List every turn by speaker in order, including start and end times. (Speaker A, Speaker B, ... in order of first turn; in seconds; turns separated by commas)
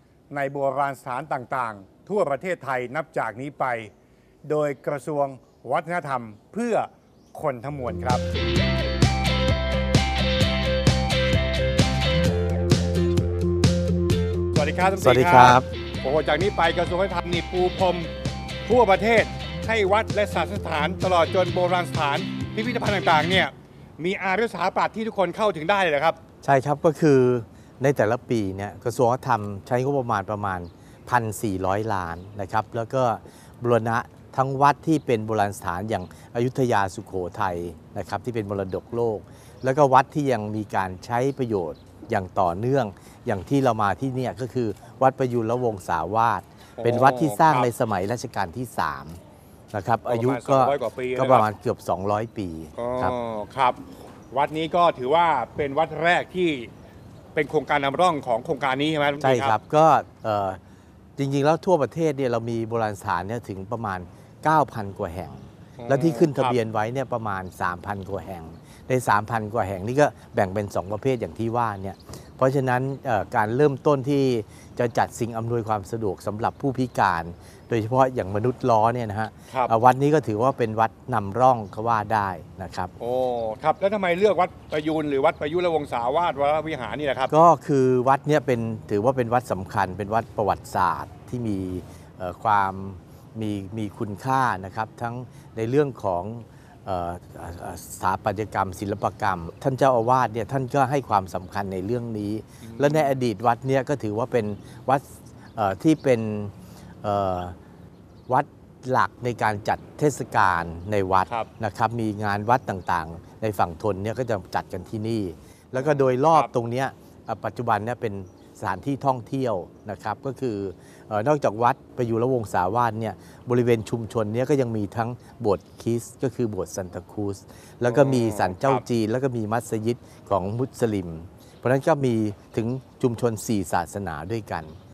Speaker A: 0.3-3.9, Speaker A: 4.4-8.2, Speaker A: 14.5-18.1, Speaker B: 15.0-15.6, Speaker A: 18.6-26.2, Speaker B: 26.4-49.2, Speaker A: 46.8-47.7, Speaker B: 49.7-53.1, Speaker A: 50.1-51.5, Speaker A: 52.8-53.8, Speaker A: 54.3-56.7, Speaker A: 57.3-59.5, Speaker B: 59.2-60.6, Speaker B: 61.2-82.9, Speaker A: 65.8-66.5, Speaker A: 83.0-87.3, Speaker B: 87.3-107.5, Speaker A: 102.6-103.2, Speaker B: 108.3-134.7, Speaker A: 115.7-116.5, Speaker A: 127.8-128.8